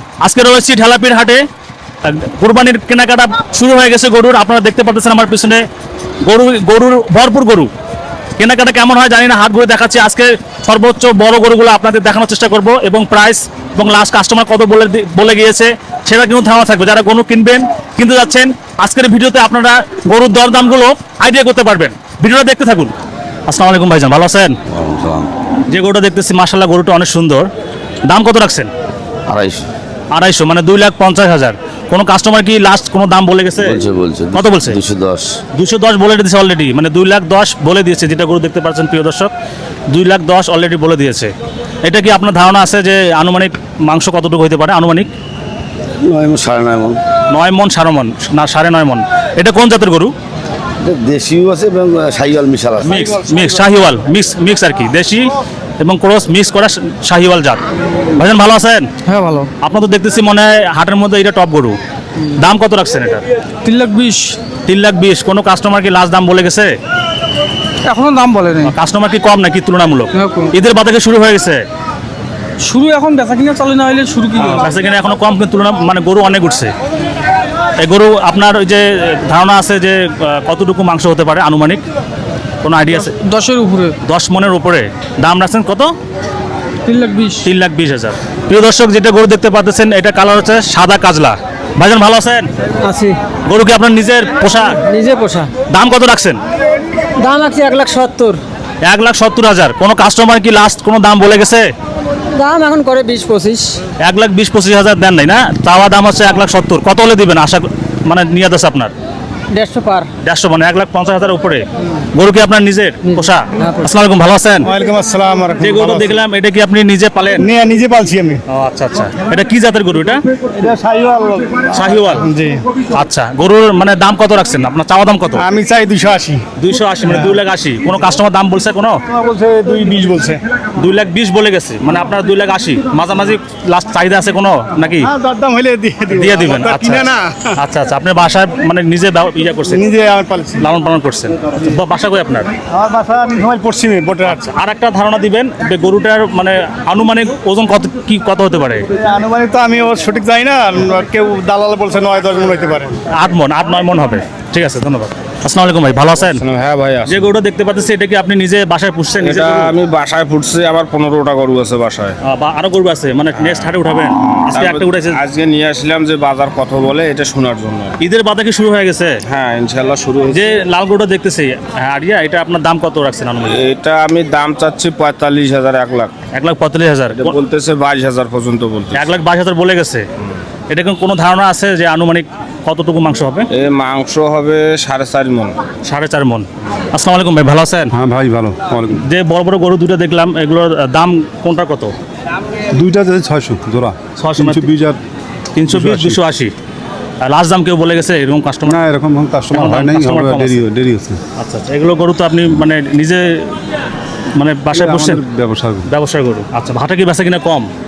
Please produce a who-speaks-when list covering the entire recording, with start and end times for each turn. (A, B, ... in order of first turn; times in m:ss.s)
0:00.2-0:01.4 A
0:02.0-0:05.6 A
0:06.2-0:07.7 A
0:08.4-0:22.9 A
0:23.5-0:24.6 A
0:24.7-0:25.3 B
0:25.7-0:27.5 A
0:28.1-0:28.7 A
0:29.3-0:29.7 B
0:30.1-0:33.8 A
0:33.6-0:35.4 B
0:34.4-0:34.8 A
0:35.6-0:39.3 A
0:39.9-0:41.3 A
0:41.8-0:45.1 A
0:46.0-0:47.0 B
0:47.3-0:50.1 A
0:50.8-0:53.1 B
0:52.8-0:57.6 A
0:58.2-0:58.9 A
0:59.0-0:59.5 C
0:59.6-1:01.8 A
1:02.3-1:03.2 A
1:03.6-1:04.4 C
1:04.7-1:06.7 A
1:07.8-1:08.7 C
1:08.6-1:11.6 A
1:10.2-1:10.5 C
1:12.6-1:14.7 C
1:14.4-1:16.7 A
1:17.8-1:21.8 A
1:22.6-1:23.2 A
1:23.1-1:24.0 C
1:24.0-1:25.9 A
1:26.9-1:27.5 C
1:27.4-1:32.5 A
1:32.8-1:33.2 D
1:33.5-1:34.8 A
1:34.8-1:35.5 D
1:35.7-1:36.4 A
1:37.2-1:38.4 D
1:38.8-1:41.7 A
1:42.3-1:43.8 D
1:44.0-1:48.9 A
1:49.5-1:50.1 D
1:50.2-1:54.7 A
1:53.1-1:53.8 D
1:54.6-1:56.2 E
1:55.6-1:57.5 A
1:57.4-1:58.4 E
1:58.5-2:00.2 A
2:00.4-2:02.6 E
2:01.7-2:02.2 A
2:02.9-2:05.4 A
2:05.4-2:06.4 E
2:06.6-2:09.0 A
2:07.1-2:07.4 E
2:09.1-2:10.4 E
2:10.8-2:15.1 A
2:15.0-2:17.6 E
2:16.1-2:19.8 A
2:19.7-2:20.7 E
2:20.6-2:22.5 A
2:22.7-2:24.4 E
2:24.2-2:28.9 A
2:29.0-2:33.0 E
2:33.1-2:36.4 A
2:36.2-2:37.3 F
2:37.1-2:39.7 A
2:39.2-2:42.2 F
2:42.2-2:45.2 A
2:43.4-2:48.0 F
2:48.0-2:49.2 A
2:49.3-2:50.6 F
2:50.3-2:53.6 A
2:53.5-2:56.1 F
2:56.3-2:57.4 A
2:57.2-2:59.1 F
2:58.9-3:00.1 A
3:00.7-3:03.5 A
3:03.5-3:05.6 F
3:05.8-3:07.9 A
3:07.9-3:09.1 G
3:08.9-3:11.9 A
3:12.7-3:15.0 G
3:14.2-3:14.7 A
3:15.6-3:16.5 A
3:15.7-3:16.2 G
3:17.2-3:18.8 A
3:18.6-3:21.2 G
3:19.5-3:20.6 A
3:21.4-3:23.5 A
3:24.4-3:25.2 A
3:24.7-3:25.9 G
3:25.9-3:27.7 A